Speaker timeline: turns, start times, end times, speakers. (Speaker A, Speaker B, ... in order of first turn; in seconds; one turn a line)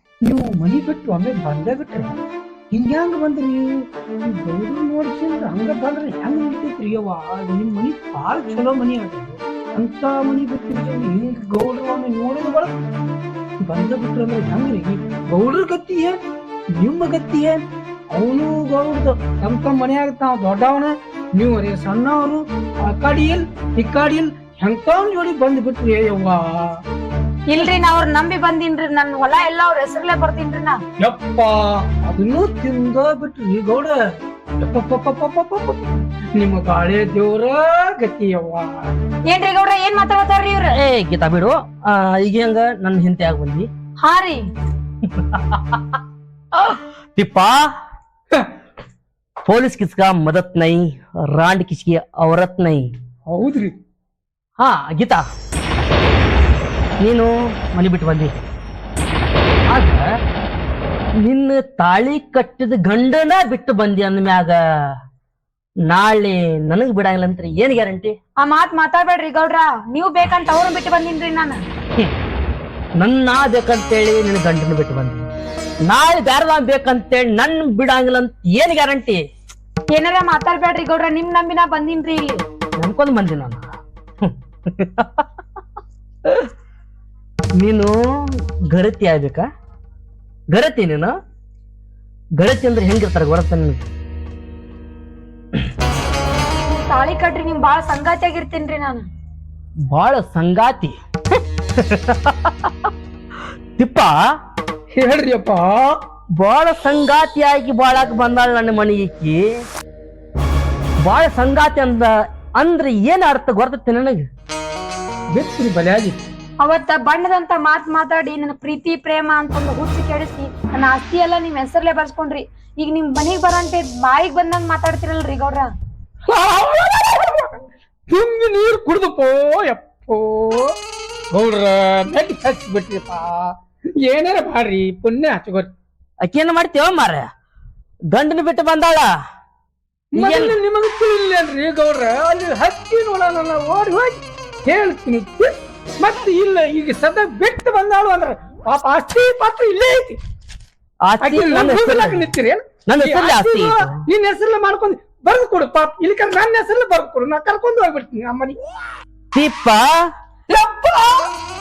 Speaker A: 0.2-2.2
Speaker A: 2.7-12.8
Speaker A: 13.6-16.2
Speaker A: 16.8-26.8
Speaker B: 27.5-30.8
Speaker A: 31.0-34.0
Speaker A: 34.6-38.9
Speaker B: 39.3-40.8
Speaker C: 40.7-43.7
Speaker B: 44.0-44.5
Speaker C: 45.0-46.0
Speaker C: 46.6-47.7
Speaker C: 49.5-52.9
Speaker A: 53.3-53.7
Speaker C: 54.6-55.2
Speaker C: 57.0-58.4
Speaker C: 59.7-60.0
Speaker C: 61.2-64.6
Speaker C: 65.9-68.2
Speaker B: 68.4-71.6
Speaker C: 73.0-75.3
Speaker C: 75.9-79.2
Speaker B: 79.9-82.4
Speaker C: 82.8-83.7
Speaker C: 84.2-85.2
Speaker C: 87.6-89.5
Speaker C: 90.5-91.2
Speaker C: 92.4-93.8
Speaker B: 96.7-99.0
Speaker C: 99.9-102.9
Speaker C: 103.8-104.2
Speaker A: 104.9-106.0
Speaker C: 106.4-109.5
Speaker C: 111.0-114.3
Speaker A: 115.3-116.2
Speaker B: 116.6-125.7
Speaker A: 126.3-130.7
Speaker A: 131.3-135.7
Speaker C: 136.2-137.3
Speaker C: 138.1-139.1
Speaker A: 140.1-150.2
Speaker C: 140.2-140.6
Speaker C: 151.1-152.3
Speaker A: 151.2-158.6
Speaker C: 152.9-154.0
Speaker C: 159.3-160.1
Speaker A: 160.5-161.3